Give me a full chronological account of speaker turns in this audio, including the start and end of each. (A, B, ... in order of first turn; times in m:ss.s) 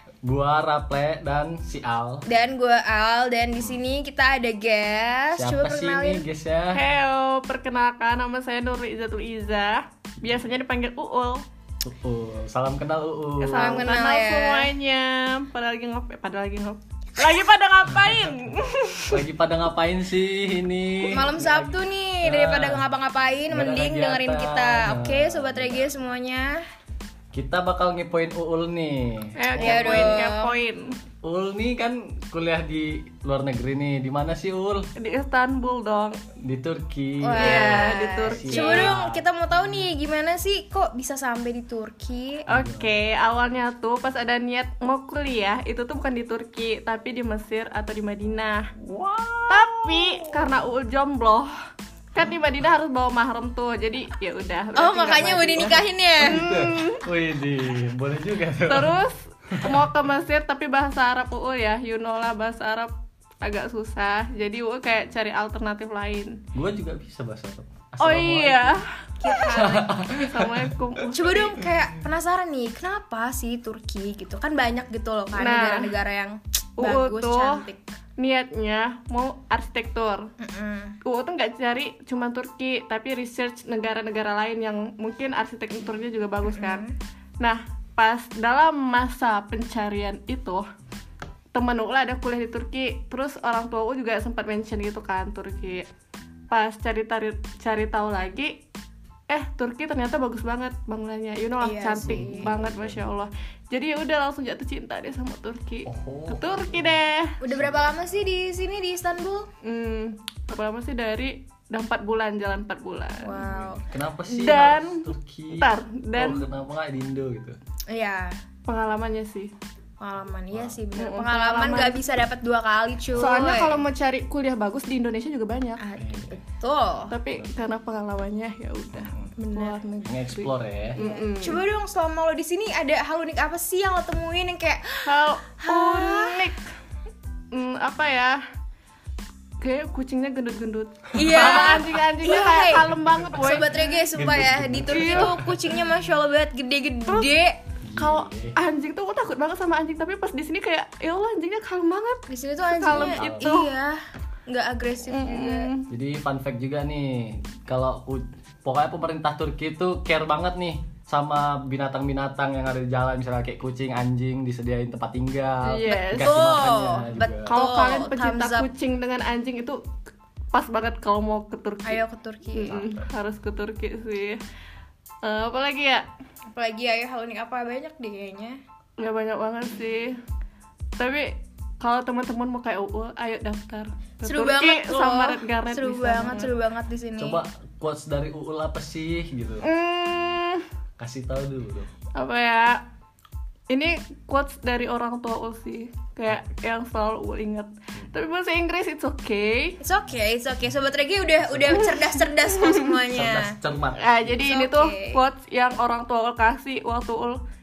0:00.2-0:02.2 A
0:02.3-0:06.2 B
0:05.4-0:06.8 A
0:06.7-0:11.4 C
0:11.8-0:13.9 A
0:13.4-0:19.2 C
0:13.5-0:14.7 B
0:19.1-0:22.9 A
0:21.1-0:26.6 B
0:23.5-0:26.0 A
0:27.3-0:30.2 A
0:29.4-0:31.0 C
0:29.6-0:30.5 B
0:31.2-0:34.9 A
0:35.0-0:36.2 C
0:36.4-0:39.8 A
0:37.2-0:42.4 B
0:37.4-0:39.0 C
0:42.5-0:48.7 C
0:42.5-0:42.9 A
0:48.8-0:50.6 A
0:49.5-0:51.5 C
0:52.1-0:57.0 C
0:54.8-0:56.5 B
0:56.2-0:59.0 A
0:58.6-1:06.4 C
0:59.5-0:59.8 A
1:06.5-1:08.8 A
1:08.0-1:08.9 C
1:09.2-1:10.0 B
1:09.3-1:10.6 A
1:09.7-1:11.6 C
1:11.1-1:17.8 B
1:11.6-1:12.0 A
1:15.3-1:16.0 C
1:16.8-1:17.6 C
1:18.2-1:20.3 C
1:20.4-1:21.0 B
1:21.0-1:26.8 C
1:26.5-1:26.9 B
1:27.4-1:30.7 C
1:31.6-1:35.9 C
1:36.5-1:38.6 C
1:39.3-1:47.4 C
1:41.6-1:42.5 B
1:42.0-1:43.0 A
1:45.9-1:47.0 A
1:47.4-1:49.5 B
1:47.5-1:47.9 A
1:49.6-1:53.5 C
1:53.2-1:53.8 B
1:53.5-1:57.6 A
1:54.3-1:56.4 C
1:57.9-1:58.4 B
1:58.7-1:59.5 C
2:00.0-2:03.8 B
2:00.5-2:00.8 A
2:01.0-2:02.0 C
2:03.1-2:03.4 A
2:03.2-2:05.8 C
2:05.8-2:07.2 B
2:06.0-2:06.4 A
2:07.1-2:11.6 C
2:08.9-2:09.3 A
2:09.5-2:09.8 B
2:10.0-2:11.0 A
2:11.0-2:15.1 B
2:15.0-2:16.6 C
2:15.6-2:16.5 B
2:17.5-2:18.4 C
2:19.6-2:24.0 C
2:21.1-2:27.6 B
2:21.2-2:21.8 A
2:24.1-2:25.6 A
2:24.9-2:25.5 C
2:27.8-2:28.6 A
2:28.0-2:33.7 C
2:32.3-2:35.7 B
2:32.9-2:33.5 A
2:35.1-2:35.9 C
2:35.9-2:47.5 A
2:45.6-2:46.4 C
2:46.1-2:48.7 B
2:47.5-2:49.8 C
2:50.5-2:54.4 C
2:51.8-2:52.9 B
2:55.2-2:56.1 C
2:56.5-2:58.6 B
2:59.0-3:00.2 C
3:01.0-3:06.5 C
3:04.2-3:07.4 B
3:07.2-3:09.7 A
3:09.6-3:10.6 C
3:11.0-3:11.9 A
3:12.2-3:12.8 C
3:13.7-3:19.8 C
3:19.8-3:23.6 B
3:21.4-3:21.9 A
3:21.8-3:22.9 C
3:23.1-3:24.2 A
3:24.0-3:27.4 C
3:24.4-3:25.2 B